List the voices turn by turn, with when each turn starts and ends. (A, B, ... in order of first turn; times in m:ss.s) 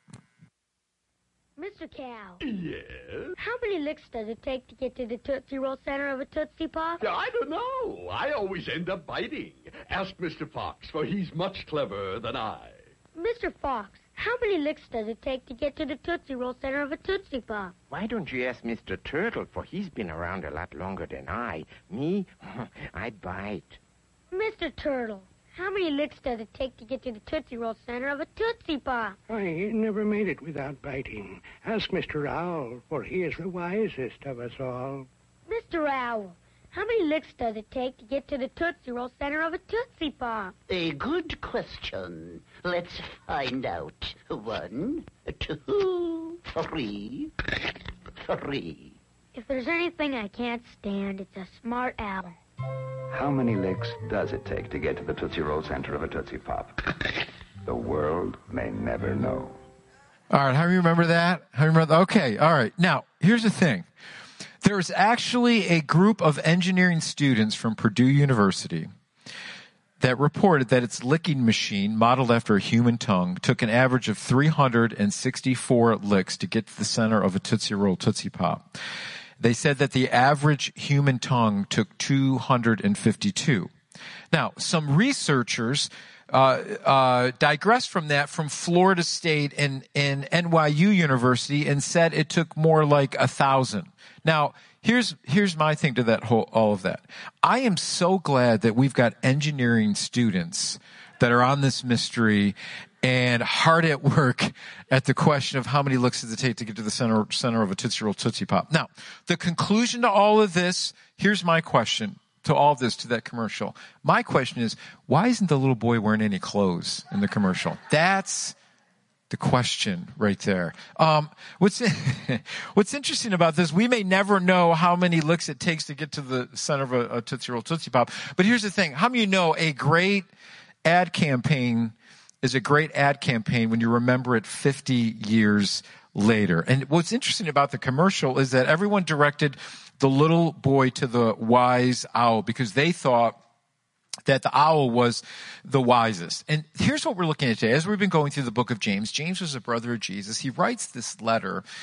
0:01.6-0:02.4 A
0:02.4-0:03.3 B
0:03.4-0:07.0 A
0:07.0-0:12.8 B
0:13.1-0:17.7 A
0:17.9-0:23.8 C
0:24.3-0:29.2 A
0:29.3-0:35.1 D
0:35.5-0:40.5 A
0:40.7-0:47.5 E
0:48.2-0:49.0 E
0:49.3-0:52.4 A
0:53.1-0:59.6 F
1:00.3-1:03.8 G
1:04.6-1:08.9 G
1:10.0-1:18.8 G
1:19.4-1:23.7 G
1:24.3-1:58.6 G
1:59.3-2:10.3 G
2:10.8-2:23.4 G
2:24.2-2:31.6 G